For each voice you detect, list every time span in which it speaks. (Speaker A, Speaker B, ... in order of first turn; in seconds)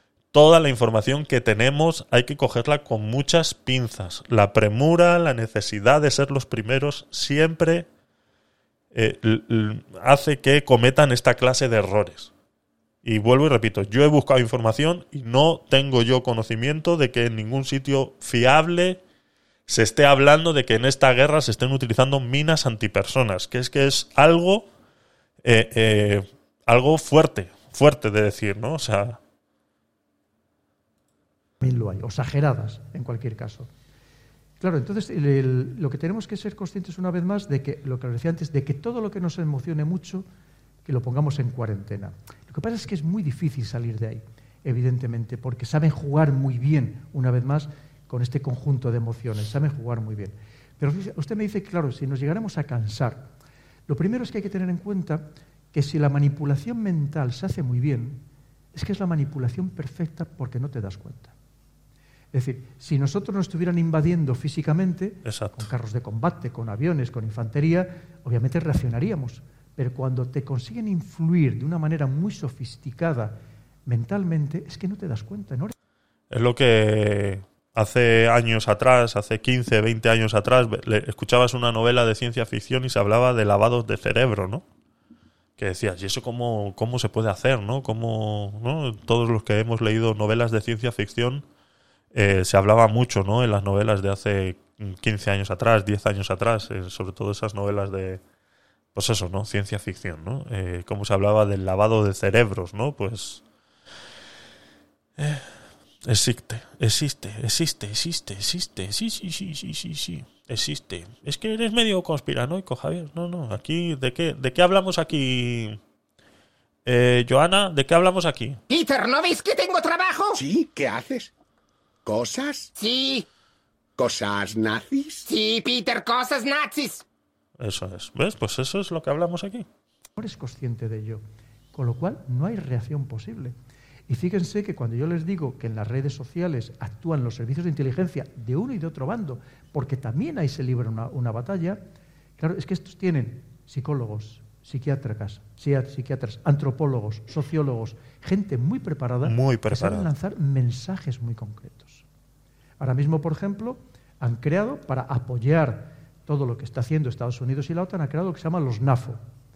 Speaker A: 0.3-7.9, 8.9-12.3, 13.0-19.0, 19.7-24.7, 25.4-29.2, 65.2-65.7, 76.3-84.6, 85.6-91.4, 92.1-98.2, 98.9-103.4, 105.2-105.5, 106.0-115.8, 116.8-118.6, 127.6-129.7, 149.2-150.1
Speaker B: 31.6-33.7, 34.6-40.2, 40.8-53.3, 53.9-58.2, 58.7-61.3, 62.3-75.7, 130.2-131.2, 131.7-133.6, 134.1-141.8, 142.4-152.0, 152.8-159.2
Speaker C: 118.7-120.4, 122.8-123.3, 125.2-127.0
Speaker D: 120.3-121.3, 122.0-122.7, 124.0-125.2